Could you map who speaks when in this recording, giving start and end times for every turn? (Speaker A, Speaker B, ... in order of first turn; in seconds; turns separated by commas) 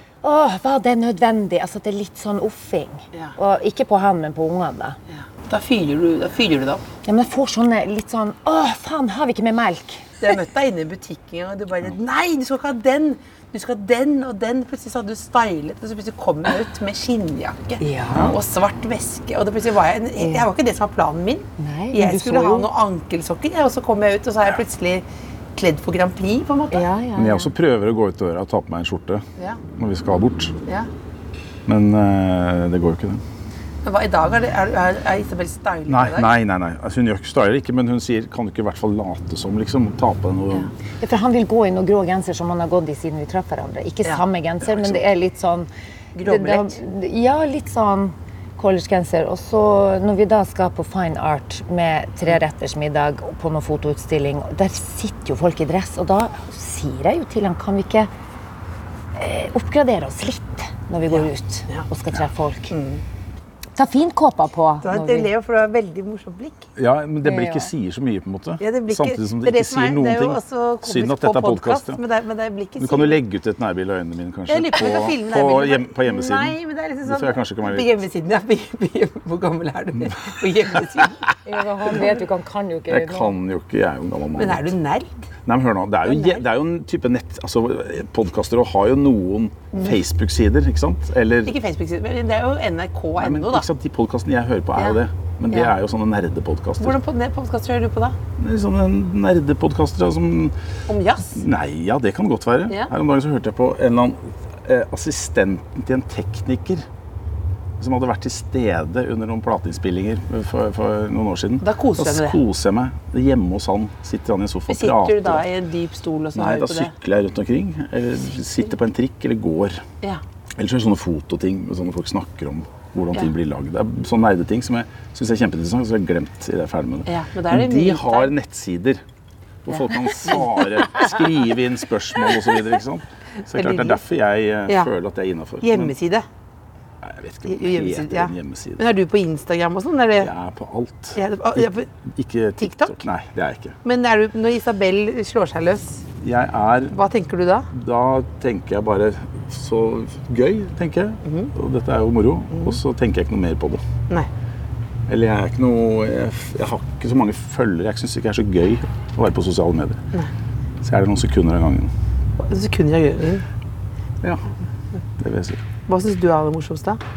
Speaker A: 0.2-5.0, Speaker B: 5.1-6.8, Speaker A: 7.0-10.1, Speaker B: 10.2-26.9, Speaker A: 17.8-18.3, Speaker A: 20.2-20.5, Speaker A: 21.6-22.7, Speaker A: 26.7-27.5, Speaker C: 27.1-30.5, Speaker C: 31.7-33.2, Speaker B: 33.8-36.3, Speaker C: 35.9-40.7, Speaker A: 41.0-45.7, Speaker C: 44.6-45.0, Speaker B: 46.1-46.8, Speaker A: 46.2-58.1, Speaker A: 59.2-62.7, Speaker B: 61.1-61.9, Speaker B: 62.7-63.0, Speaker A: 63.8-65.3, Speaker B: 64.8-66.7, Speaker C: 66.8-72.0, Speaker A: 67.2-67.7, Speaker B: 68.6-73.2, Speaker C: 72.8-77.9, Speaker B: 74.5-81.3, Speaker A: 81.5-83.3, Speaker C: 82.9-84.8, Speaker B: 84.4-85.2, Speaker C: 85.5-91.6, Speaker B: 86.0-86.4, Speaker B: 91.5-93.7, Speaker C: 93.2-97.0, Speaker B: 96.8-98.2, Speaker C: 98.4-100.5, Speaker B: 100.9-101.4, Speaker C: 101.3-106.9, Speaker C: 107.8-115.5, Speaker B: 111.6-112.4, Speaker B: 114.7-116.9, Speaker C: 116.3-119.8, Speaker C: 120.6-129.0, Speaker B: 127.1-128.3, Speaker C: 129.7-135.9, Speaker B: 129.7-130.4, Speaker B: 133.4-134.0, Speaker B: 135.6-136.2, Speaker C: 137.0-138.9, Speaker B: 137.5-140.3, Speaker C: 140.2-143.8, Speaker B: 141.2-141.9, Speaker B: 142.6-143.0, Speaker B: 143.8-146.0, Speaker C: 146.2-147.0, Speaker B: 146.9-147.7, Speaker C: 147.7-153.8, Speaker B: 151.2-151.5, Speaker B: 152.5-152.8, Speaker C: 155.1-160.0, Speaker C: 160.8-161.9, Speaker B: 162.4-163.4, Speaker C: 165.2-165.6, Speaker B: 165.9-167.0